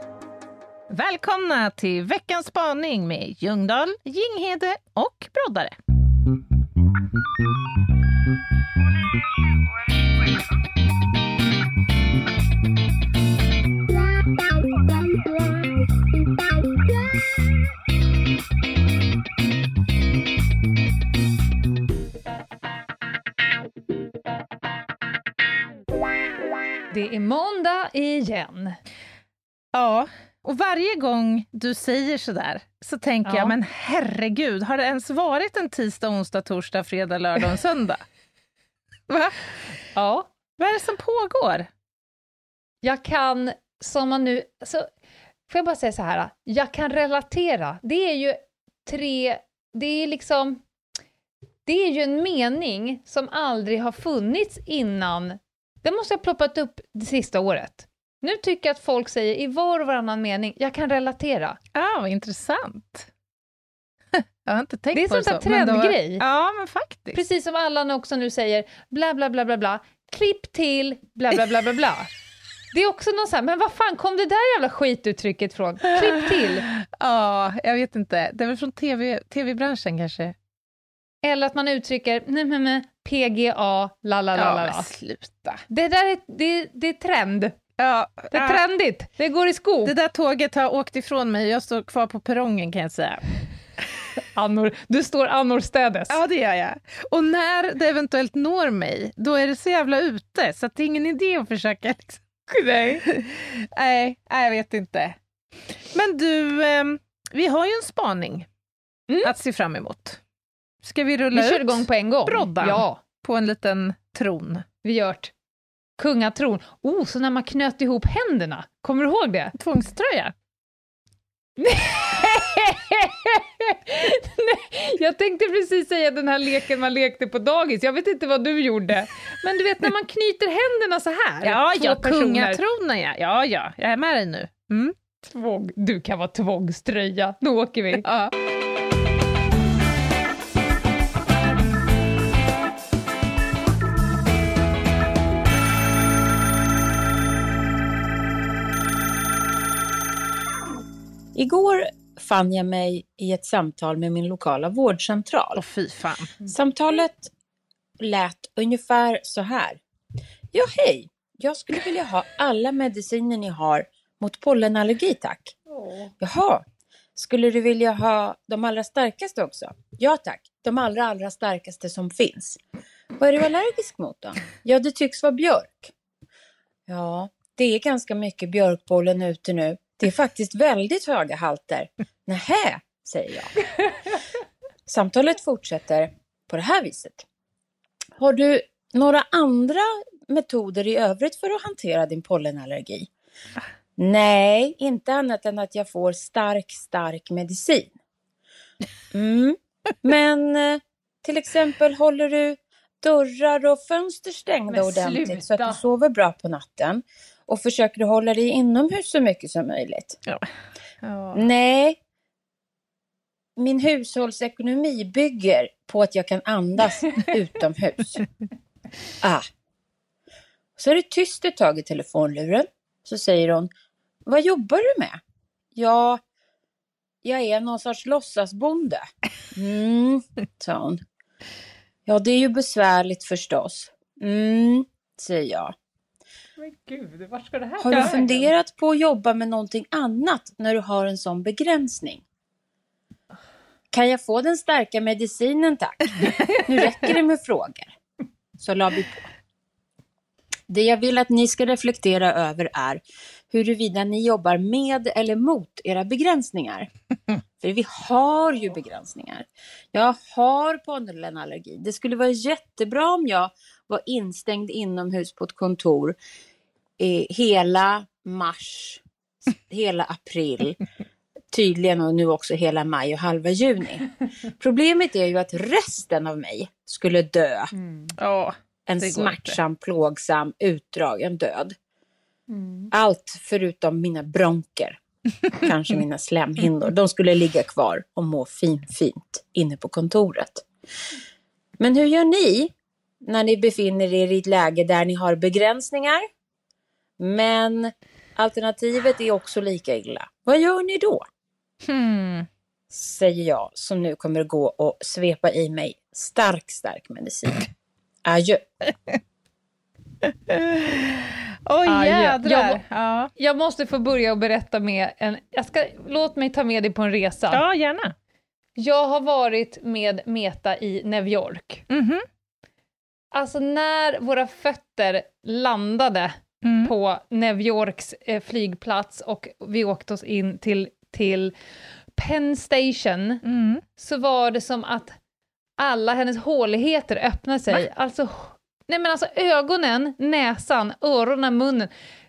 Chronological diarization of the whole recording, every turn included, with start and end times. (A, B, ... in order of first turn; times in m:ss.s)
0:00.9-0:05.8 A
0:26.9-0:28.8 B
0:29.7-0:38.0 A
0:33.2-0:33.5 B
0:39.1-0:39.4 A
0:40.0-0:40.3 B
0:40.6-0:41.7 A
0:42.8-0:44.9 B
0:45.5-0:50.6 B
0:51.6-1:01.6 B
1:01.7-1:03.1 A
1:04.1-1:07.2 A
1:04.9-1:06.2 B
1:07.1-1:12.1 B
1:12.7-1:16.6 B
1:16.4-1:20.3 A
1:21.2-1:24.9 B
1:24.3-1:25.6 A
1:25.7-1:27.6 B
1:27.8-1:28.6 A
1:28.3-1:29.9 B
1:29.8-1:33.2 A
1:34.3-1:36.2 B
1:36.1-1:42.2 A
1:42.5-1:43.0 B
1:43.0-1:45.2 A
1:45.9-1:48.5 A
1:49.2-1:50.2 A
1:50.8-1:54.6 A
1:51.3-1:53.0 B
1:54.8-1:55.3 B
1:56.0-1:59.5 B
1:59.6-2:00.3 A
2:01.6-2:12.6 B
2:11.4-2:14.9 A
2:15.3-2:18.0 B
2:18.0-2:18.3 A
2:31.3-2:35.6 C
2:35.6-2:36.3 A
2:36.4-2:37.3 C
2:38.0-2:39.8 C
2:40.5-2:45.6 C
2:45.8-2:46.1 B
2:46.2-2:46.6 C
2:47.1-2:52.6 C
2:53.2-2:55.9 C
2:56.9-3:03.6 C
3:04.9-3:07.2 C
3:08.2-3:13.1 C
3:14.0-3:17.9 C
3:19.1-3:30.2 C
3:24.7-3:25.8 B
3:31.0-3:31.4 A
3:31.3-3:32.0 C
3:33.6-3:38.2 C
3:40.8-3:43.7 C
3:44.2-3:45.2 C
3:45.7-3:46.2 C
3:47.2-3:51.0 C
3:52.0-3:55.7 C
3:56.6-3:58.5 B
3:57.8-4:02.2 C
4:03.9-4:08.0 C
4:08.6-4:09.3 C
4:10.7-4:16.9 C
4:17.6-4:26.2 C
4:27.0-4:30.8 C
4:31.5-4:37.7 C
4:37.8-4:38.1 B
4:38.2-4:39.6 A
4:38.9-4:41.8 C
4:42.5-4:42.9 B
4:42.9-4:45.0 C
4:45.6-4:50.6 C
4:51.8-4:52.7 C
4:53.2-4:56.2 C
4:57.2-5:01.2 C
5:01.8-5:02.5 A
5:02.9-5:07.7 C
5:08.2-5:08.6 C
5:10.2-5:13.3 A
5:11.8-5:12.8 B
5:13.4-5:17.6 B
5:17.5-5:18.1 A
5:18.8-5:21.8 B
5:21.9-5:22.2 A
5:23.3-5:31.5 B
5:26.6-5:26.9 A
5:32.2-5:33.4 B
5:33.4-5:33.8 A
5:34.0-5:35.2 B
5:35.8-5:41.9 B